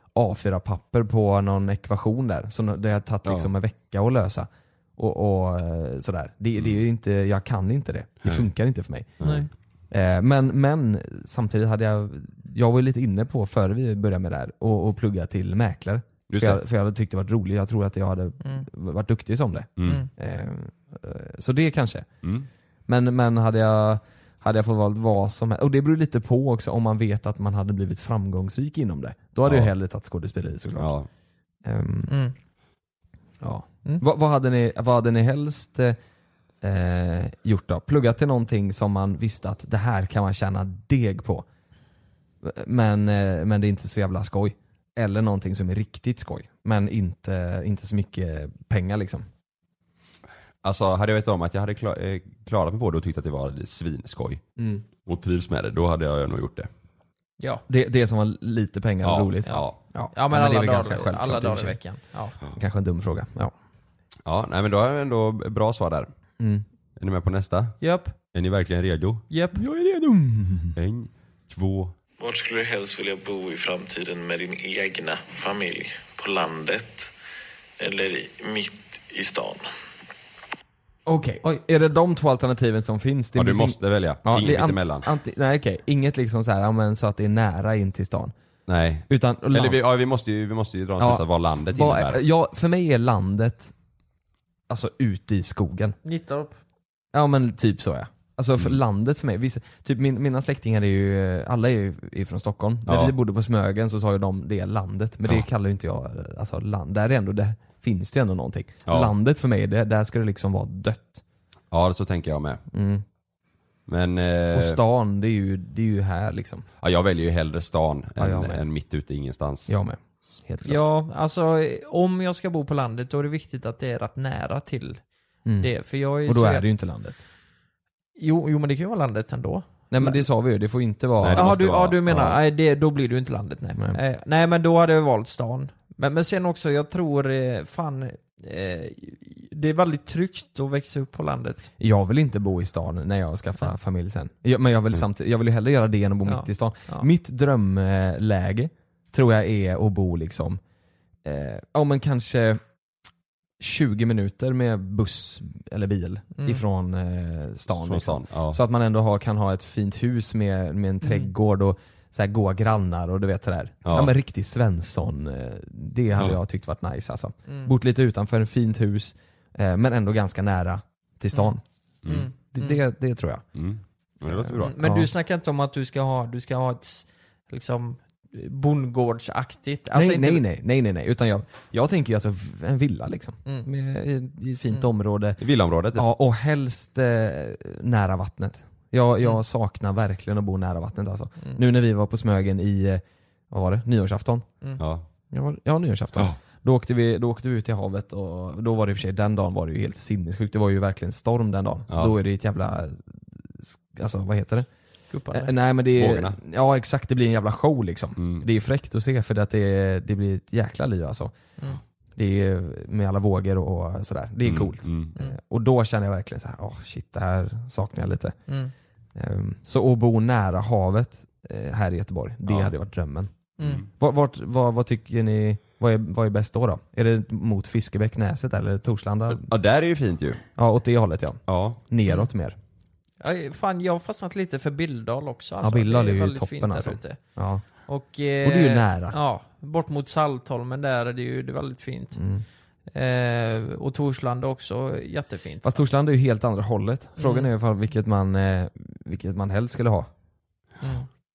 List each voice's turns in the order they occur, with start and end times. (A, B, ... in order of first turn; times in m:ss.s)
0:00.2-0:09.3 A
0:09.2-0:09.5 B
0:09.2-0:09.5 C
0:09.9-0:22.1 A
0:16.3-0:16.6 B
0:18.4-0:18.7 C
0:19.8-0:20.0 B
0:22.9-0:30.9 A
0:29.4-0:29.7 B
0:30.8-0:31.1 B
0:31.6-0:32.2 A
0:32.1-0:32.3 C
0:33.4-0:36.0 A
0:36.6-0:41.5 A
0:42.4-0:49.3 A
0:50.6-0:54.4 B
0:54.6-0:54.8 A
0:55.0-0:56.7 B
0:57.7-1:01.8 A
0:59.0-0:59.8 B
0:59.4-1:02.4 C
1:02.5-1:03.5 A
1:04.3-1:06.1 B
1:06.4-1:06.6 A
1:07.0-1:09.2 B
1:07.8-1:08.2 C
1:09.3-1:09.6 C
1:09.6-1:10.8 A
1:10.8-1:12.0 B
1:12.2-1:17.1 D
1:17.8-1:19.7 D
1:21.1-1:28.3 A
1:23.4-1:25.1 B
1:28.7-1:32.2 B
1:29.1-1:29.8 A
1:31.0-1:33.7 A
1:34.7-1:36.0 A
1:36.0-1:36.6 C
1:37.1-1:51.2 A
1:42.9-1:43.1 B
1:48.9-1:49.1 B
1:51.7-1:52.6 B
1:52.7-1:53.0 A
1:53.9-1:54.8 B
1:54.5-1:56.7 A
1:56.8-1:59.7 B
1:58.2-1:58.6 A
1:59.7-2:00.8 A
2:00.6-2:05.0 C
2:05.4-2:05.7 A
2:05.6-2:06.6 C
2:06.2-2:07.2 A
2:08.2-2:10.2 C
2:09.9-2:12.3 A
2:11.2-2:12.3 B
2:11.3-2:21.7 C
2:21.8-2:30.6 A
2:26.3-2:27.1 C
2:31.2-2:32.6 A
2:33.6-2:51.6 A
2:36.4-2:36.6 C
2:37.8-2:38.6 B
2:41.0-2:41.3 C
2:43.8-2:44.1 B
2:47.5-2:47.7 C
2:52.0-2:52.3 B
2:52.1-2:52.8 C
2:52.4-2:53.4 A
2:53.6-2:54.8 B
2:54.5-3:00.4 C
2:54.6-2:55.1 A
2:59.9-3:05.4 A
3:05.4-3:06.1 B
3:06.0-3:14.5 A
3:14.8-3:15.1 B
3:15.3-3:24.7 A
3:25.1-3:25.5 C
3:25.3-3:31.3 A
3:26.0-3:26.4 B
3:28.2-3:28.4 B
3:32.2-3:38.4 A
3:34.4-3:35.1 B
3:38.5-3:38.7 C
3:39.2-3:43.3 A
3:42.5-3:42.7 B
3:43.6-3:43.8 C
3:43.9-3:49.5 A
3:49.4-3:50.4 B
3:50.6-3:52.6 A
3:51.5-3:51.8 B
3:53.2-3:57.2 C
3:55.6-3:57.6 A
3:57.9-4:02.2 C
3:58.4-3:59.2 A
4:02.2-4:02.4 A
4:02.9-4:05.8 C
4:05.6-4:10.1 A
4:07.2-4:07.5 C
4:10.8-4:11.1 C